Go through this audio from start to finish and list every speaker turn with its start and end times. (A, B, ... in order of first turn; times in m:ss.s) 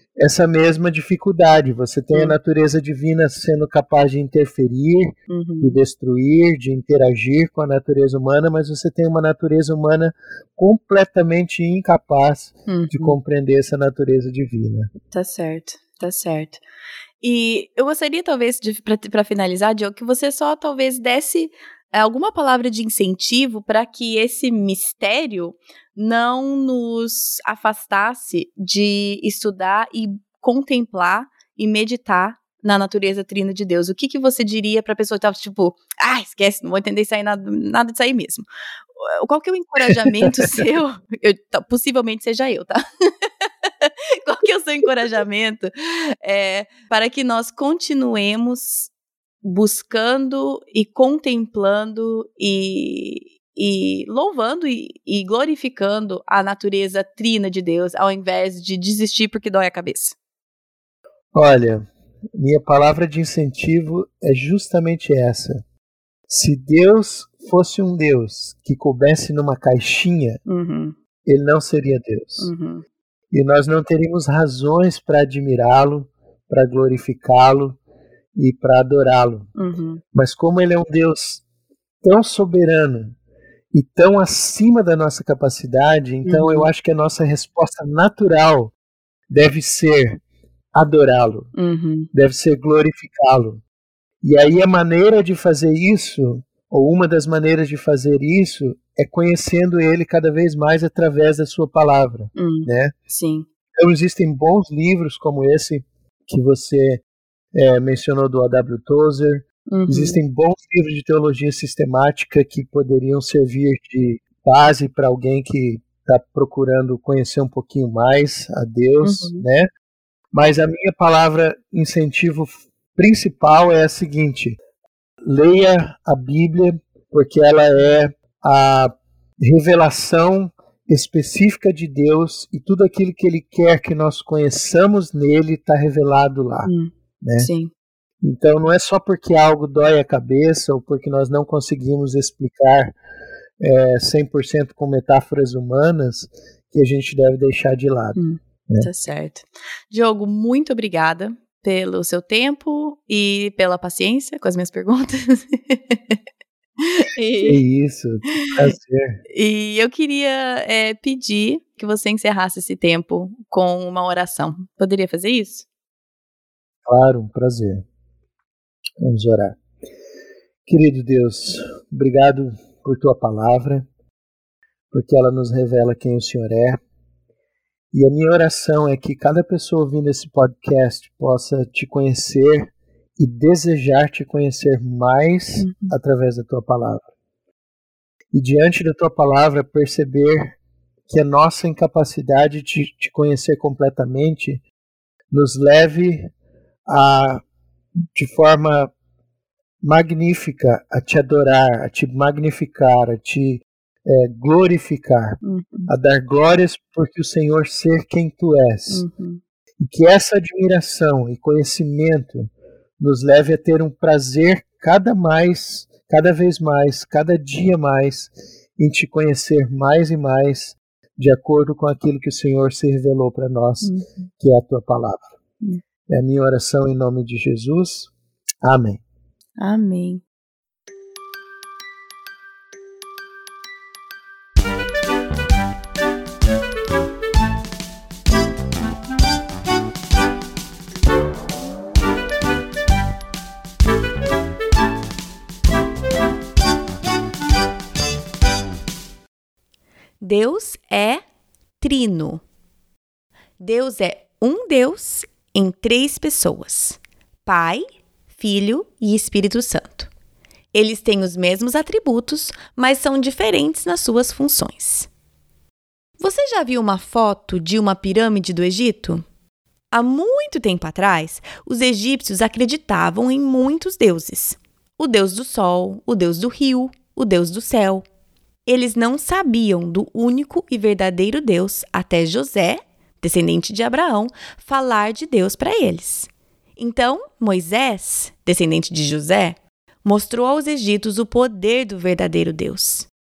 0:00.2-0:14.9 A
0:05.3-0:05.8 B
0:12.7-0:13.2 B
0:15.1-0:16.6 B
0:17.2-0:38.4 B
0:39.0-0:48.9 B
0:49.4-1:00.1 B
1:01.3-1:05.6 A
1:06.3-1:10.4 A
1:10.4-1:10.9 B
1:11.2-1:12.5 A
1:12.4-1:12.8 B
1:13.3-1:17.8 A
1:18.4-1:19.5 A
1:19.6-1:20.0 B
1:20.1-1:21.4 A
1:22.0-1:23.2 A
1:23.7-1:28.7 A
1:26.2-1:26.7 B
1:29.3-1:30.2 A
1:30.7-1:31.5 A
1:31.5-1:32.1 B
1:32.1-1:33.6 A
1:34.2-1:42.9 A
1:42.4-1:43.5 B
1:43.8-1:47.0 A
1:47.5-1:59.7 A
1:49.7-1:50.2 B
1:59.0-1:59.4 B
2:00.3-2:04.6 A
2:05.2-2:08.9 A
2:09.4-2:16.7 A
2:16.6-2:17.7 B
2:17.2-2:17.5 A
2:18.2-2:22.9 A
2:23.6-2:28.9 A
2:28.2-2:36.2 B
2:36.8-2:37.6 B
2:37.4-2:39.2 A
2:39.3-2:45.6 B
2:46.8-2:47.8 A
2:49.0-2:49.6 A
2:50.7-2:53.9 A
2:54.9-2:56.8 A
2:57.9-3:07.0 A
3:05.6-3:05.9 B
3:08.3-3:10.6 A
3:11.1-3:14.6 A
3:15.3-3:16.3 A
3:16.9-3:17.4 A
3:18.1-3:18.9 A
3:19.8-3:29.0 A
3:25.4-3:25.9 B
3:28.9-3:29.4 B
3:29.8-3:45.3 A
3:43.8-3:44.3 B
3:46.1-3:48.1 A
3:48.6-3:49.0 A
3:49.6-3:50.2 B
4:10.2-4:11.2 B
4:11.8-4:12.4 B
4:13.6-4:20.1 B
4:20.7-4:25.1 B
4:26.2-4:29.2 B
4:29.9-4:38.0 B
4:38.6-4:53.1 B